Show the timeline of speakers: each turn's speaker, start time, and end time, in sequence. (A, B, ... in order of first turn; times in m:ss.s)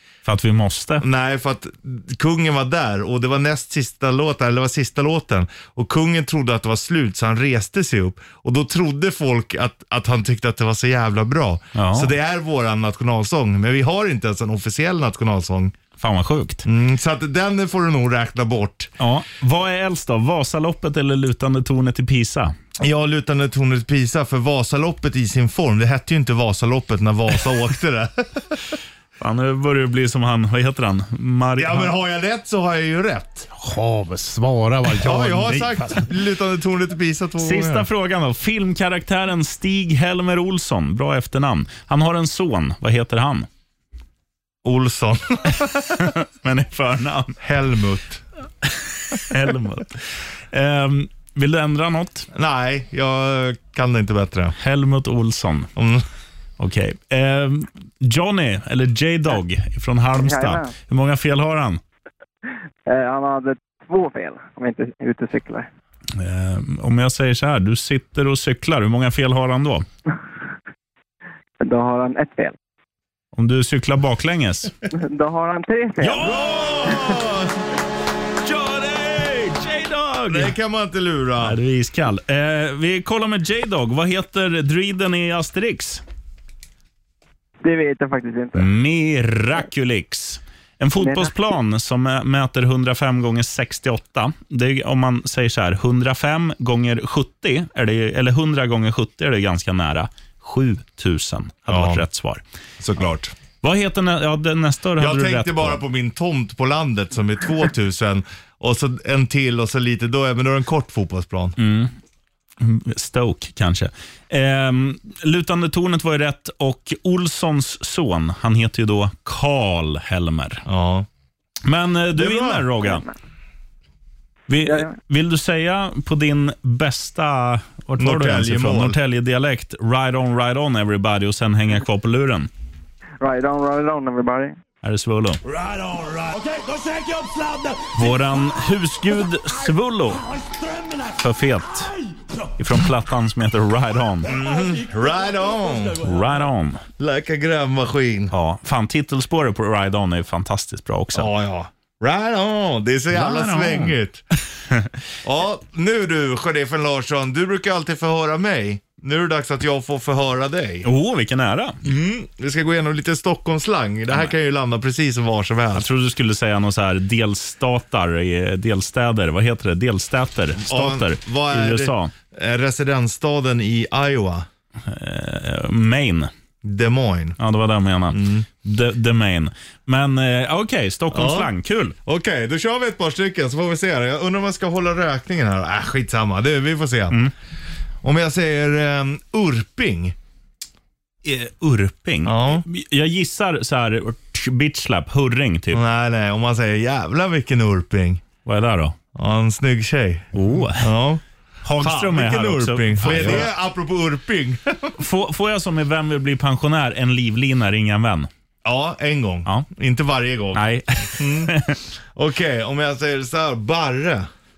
0:00.2-0:01.0 A
0:01.0-0:15.7 B
0:11.7-0:12.1 A
0:16.0-0:16.6 A
0:16.6-0:18.9 B
0:19.0-0:22.5 A
0:22.8-0:28.6 B
0:29.2-0:31.9 A
0:31.6-0:33.5 B
0:33.6-0:36.1 C
0:35.0-0:37.8 B
0:37.4-0:43.5 A
0:44.6-0:46.0 B
0:46.0-0:47.4 A
0:47.4-0:48.2 B
0:49.1-0:52.3 A
0:52.3-0:54.5 B
0:54.6-0:55.7 A
0:55.8-0:56.0 B
0:56.6-1:01.8 A
1:00.2-1:00.7 D
1:02.9-1:05.7 D
1:06.2-1:09.8 A
1:11.6-1:12.5 D
1:13.3-1:14.7 A
1:14.9-1:16.5 D
1:16.0-1:17.1 A
1:16.2-1:17.5 B
1:18.4-1:20.5 A
1:20.3-1:21.6 B
1:21.4-1:26.0 A
1:27.6-1:28.7 D
1:28.5-1:42.4 A
1:31.0-1:31.3 D
1:41.7-1:42.0 B
1:42.8-1:43.3 B
1:43.6-1:45.8 A
1:45.0-1:51.6 B
1:51.6-1:51.9 A
1:52.6-2:00.6 A
2:00.7-2:01.1 B
2:01.6-2:03.0 A
2:02.1-2:02.7 B
2:02.8-2:03.1 D
2:04.5-2:12.5 A
2:04.6-2:04.9 D
2:08.0-2:09.0 B
2:13.2-2:14.6 D
2:14.8-2:15.4 A
2:15.4-2:18.1 E
2:17.9-2:20.2 A
2:20.3-2:21.1 E
2:21.2-2:21.9 A
2:22.6-2:24.3 A
2:24.3-2:26.0 B
2:26.0-2:26.8 A
2:27.0-2:28.3 B
2:28.3-2:31.3 A
2:31.1-2:34.2 B
2:33.1-2:34.0 A
2:35.2-2:40.8 B
2:40.8-2:41.8 A
2:41.8-2:45.8 B
2:45.7-2:52.1 A
2:50.6-2:54.4 B
2:54.9-2:56.3 A
2:56.6-2:57.4 B
2:57.4-3:02.0 A
2:58.1-2:58.4 B
3:01.1-3:01.5 B
3:02.0-3:07.2 B
3:08.0-3:10.1 B
3:11.2-3:15.8 A
3:12.2-3:12.6 B
3:15.7-3:18.2 B
3:18.4-3:18.9 A
3:19.1-3:21.2 B
3:20.3-3:20.9 A
3:21.6-3:23.5 A
3:21.8-3:25.0 B
3:23.1-3:23.4 C
3:25.0-3:28.3 A
3:28.6-3:31.6 B
3:30.5-3:31.8 A
3:32.1-3:34.3 B